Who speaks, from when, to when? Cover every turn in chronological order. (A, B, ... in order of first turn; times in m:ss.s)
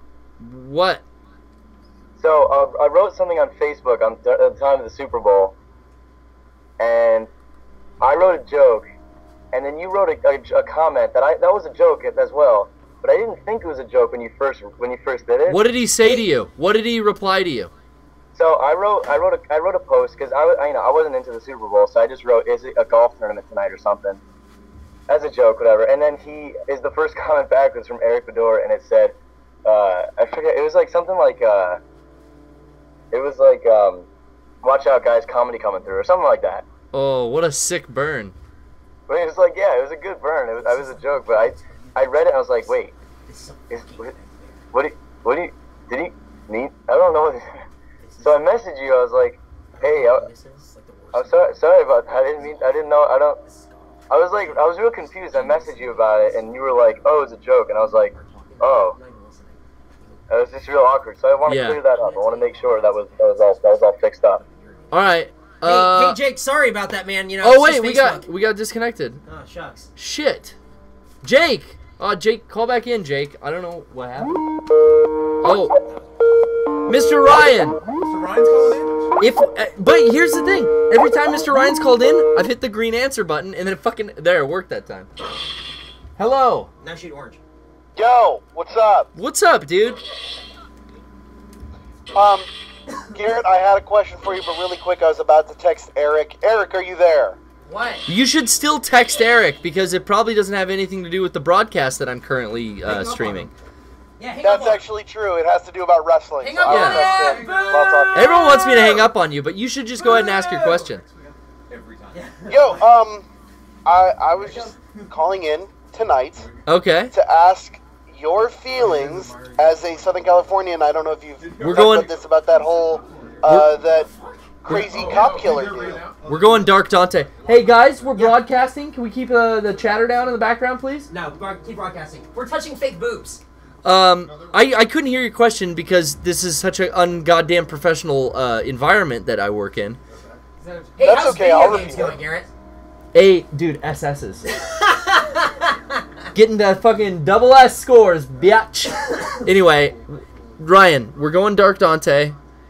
0:00.4-0:01.0 A
0:02.2-0:05.5 B
0:06.8-0:07.3 B
0:08.0-0:08.9 B
0:09.5-0:15.6 B
0:15.5-0:17.7 A
0:18.3-0:24.2 B
0:25.1-0:29.1 B
0:29.6-0:31.8 B
0:33.1-0:34.1 B
0:34.6-0:36.6 B
0:36.9-0:38.3 A
0:39.1-0:42.9 B
0:40.5-0:44.6 C
0:43.7-0:44.1 B
0:44.7-0:47.4 B
0:48.0-0:48.5 C
0:48.2-0:50.3 B
0:49.7-0:57.2 C
0:51.1-0:53.4 B
0:54.1-0:59.0 B
0:57.8-1:08.3 C
1:00.3-1:04.4 B
1:01.5-1:01.8 A
1:04.9-1:06.2 A
1:07.4-1:09.2 A
1:09.2-1:09.9 C
1:10.0-1:10.6 A
1:11.2-1:14.4 A
1:15.4-1:15.8 A
1:15.8-1:16.1 C
1:16.8-1:17.8 A
1:18.0-1:19.1 D
1:19.2-1:25.1 A
1:26.2-1:26.7 A
1:26.8-1:27.4 C
1:27.9-1:29.1 E
1:29.1-1:30.0 A
1:32.1-1:32.5 E
1:33.1-1:37.4 E
1:37.6-1:38.1 C
1:38.1-1:43.5 A
1:42.8-1:43.5 C
1:44.2-1:44.8 C
1:44.4-1:48.2 E
1:46.4-1:49.0 C
1:46.6-1:47.1 A
1:47.1-1:47.9 D
1:48.1-1:51.0 A
1:50.0-1:52.3 D
1:52.1-1:52.9 C
1:52.4-1:53.2 E
1:53.8-1:56.5 E
1:54.4-1:54.7 C
1:54.5-1:55.1 D
1:56.4-1:56.6 D
1:56.6-1:57.1 A
1:57.1-2:04.1 E
1:58.7-2:00.3 D
2:01.4-2:08.3 D
2:01.6-2:02.1 A
2:03.4-2:03.7 A
2:04.6-2:06.1 E
2:04.7-2:05.1 A
2:06.2-2:11.1 A
2:09.6-2:10.3 D
2:11.1-2:13.4 C
2:13.8-2:20.0 A
2:14.3-2:14.6 D
2:20.1-2:20.4 D
2:20.6-2:22.5 C
2:21.0-2:22.2 E
2:23.1-2:24.5 A
2:24.6-2:25.3 C
2:26.3-2:32.4 A
2:29.8-2:30.5 D